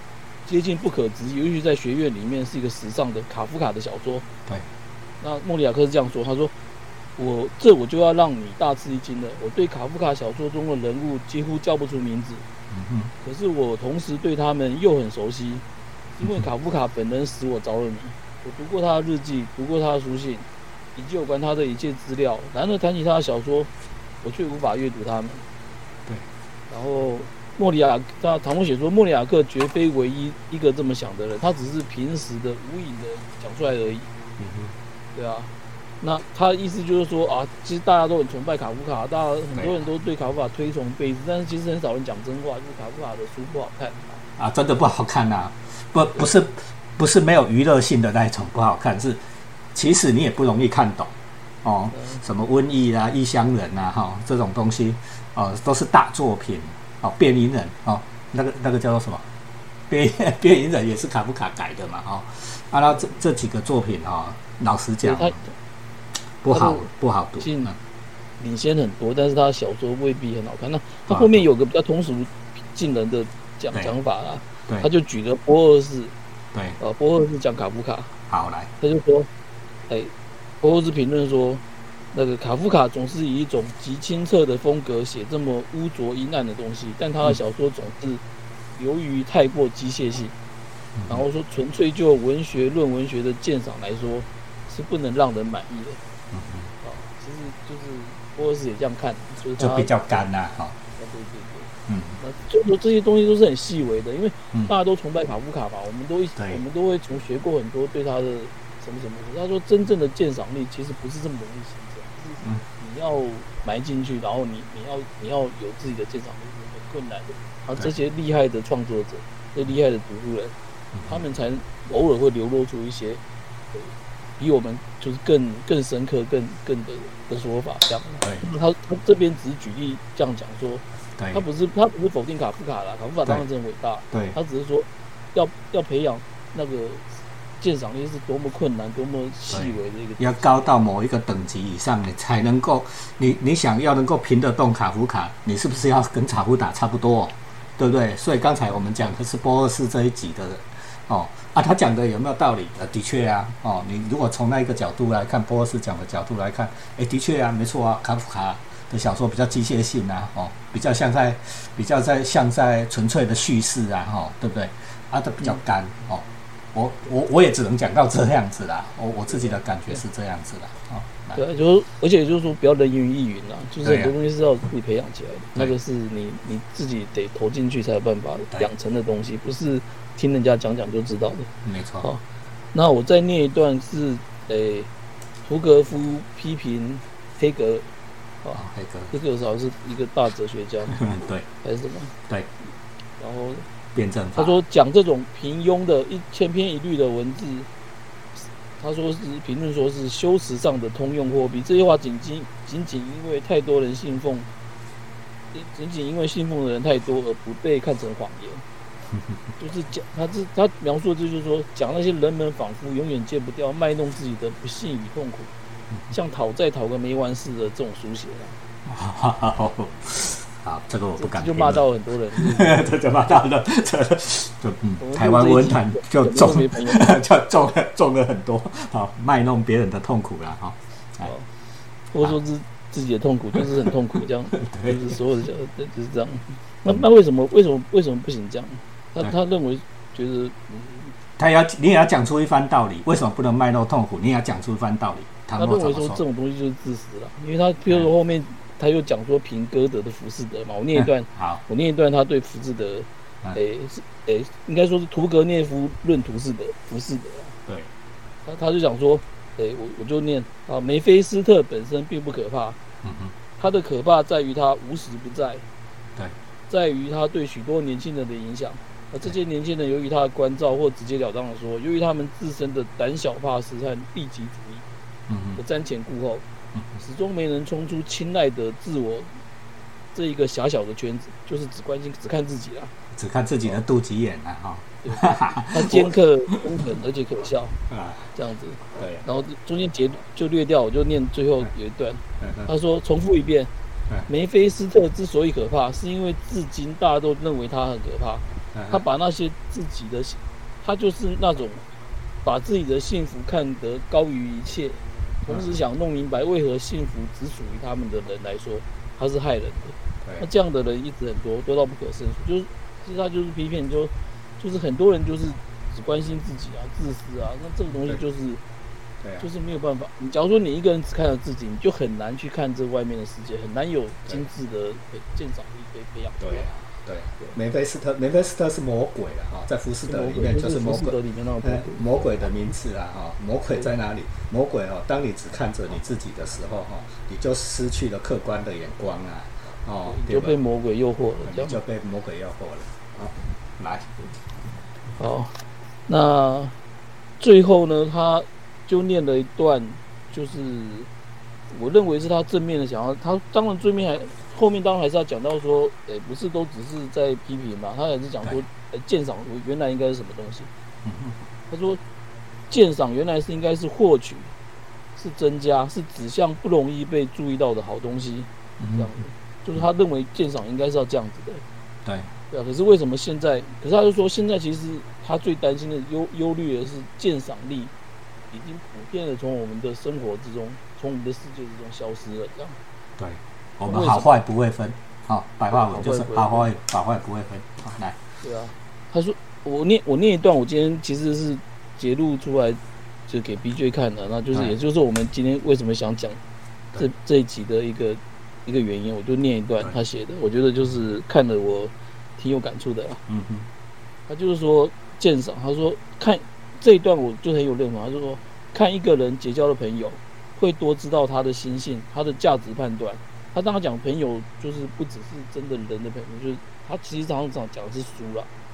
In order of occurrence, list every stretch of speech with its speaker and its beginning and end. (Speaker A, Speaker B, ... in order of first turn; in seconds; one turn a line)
Speaker A: 0.5-4.3
Speaker A: 5.2-6.5
Speaker A: 7.2-12.4
Speaker B: 12.7-13.1
Speaker A: 13.2-15.7
Speaker A: 16.2-23.7
Speaker B: 16.2-16.5
Speaker A: 24.2-25.4
Speaker A: 26.7-34.1
Speaker B: 34.4-34.8
Speaker A: 35.1-35.5
Speaker A: 36.0-44.2
Speaker B: 39.5-39.9
Speaker B: 44.4-49.2
Speaker B: 49.8-59.2
Speaker A: 51.9-52.2
Speaker B: 59.9-65.4
Speaker A: 65.0-65.5
Speaker B: 66.4-67.8
Speaker A: 66.5-66.9
Speaker A: 67.4-67.7
Speaker A: 68.4-76.1
Speaker B: 71.1-71.5
Speaker B: 76.5-76.8
Speaker A: 76.8-78.1
Speaker B: 78.3-78.7
Speaker A: 78.8-79.3
Speaker A: 79.9-81.6
Speaker A: 82.1-88.2
Speaker A: 88.8-90.3
Speaker B: 91.0-91.2
Speaker A: 91.1-96.0
Speaker B: 96.3-96.7
Speaker A: 96.8-99.9
Speaker B: 99.6-100.8
Speaker A: 101.0-120.5
Speaker B: 101.9-102.2
Speaker B: 106.4-106.6
Speaker B: 120.9-121.2
Speaker A: 121.0-123.2
Speaker A: 123.7-137.1
Speaker B: 128.2-128.5
Speaker B: 131.2-131.4
Speaker B: 134.1-134.4
Speaker A: 137.6-140.8
Speaker B: 139.5-171.4
Speaker A: 169.3-170.0
Speaker A: 171.3-181.5
Speaker B: 173.8-174.1
Speaker B: 181.7-182.1
Speaker A: 182.7-184.9
Speaker A: 185.4-187.9
Speaker A: 188.4-191.0
Speaker B: 188.6-189.1
Speaker B: 190.9-191.5
Speaker A: 191.6-192.1
Speaker A: 193.2-193.7
Speaker B: 193.9-194.6
Speaker A: 194.4-197.7
Speaker A: 198.4-204.5
Speaker A: 205.5-208.6
Speaker A: 209.6-215.5
Speaker A: 216.1-218.6
Speaker B: 218.9-221.8
Speaker A: 221.2-222.9
Speaker B: 222.4-231.3
Speaker A: 225.0-227.2
Speaker A: 231.2-231.5
Speaker A: 232.1-241.2
Speaker B: 234.6-235.0
Speaker B: 241.4-246.2
Speaker A: 245.6-257.6
Speaker B: 250.9-251.6
Speaker A: 258.5-262.8
Speaker B: 263.0-263.4
Speaker A: 263.6-265.6
Speaker A: 266.7-274.9
Speaker B: 275.3-275.6
Speaker A: 275.6-276.4
Speaker A: 277.0-279.3
Speaker A: 280.1-282.9
Speaker B: 283.1-286.6
Speaker A: 285.0-287.8
Speaker B: 287.9-288.3
Speaker A: 288.4-293.7
Speaker B: 288.9-289.2
Speaker B: 292.4-292.7
Speaker A: 294.3-301.8
Speaker B: 298.7-299.0
Speaker A: 302.4-318.6
Speaker B: 305.5-305.8
Speaker B: 319.2-319.5
Speaker A: 319.4-326.7
Speaker B: 326.4-340.6
Speaker A: 330.1-332.2
Speaker A: 340.1-341.8
Speaker B: 341.4-344.2
Speaker A: 345.2-345.5
Speaker A: 346.1-346.8
Speaker A: 347.4-351.1
Speaker A: 351.7-360.7
Speaker B: 361.0-361.4
Speaker A: 361.7-362.0
Speaker A: 362.7-364.5
Speaker A: 365.2-371.6
Speaker B: 368.8-369.1
Speaker B: 372.1-372.3
Speaker A: 372.5-377.9
Speaker A: 378.5-382.8
Speaker B: 383.2-388.2
Speaker A: 383.9-384.3
Speaker A: 385.7-386.7
Speaker A: 388.4-396.4
Speaker A: 397.0-403.2
Speaker B: 403.3-403.7
Speaker A: 404.3-418.5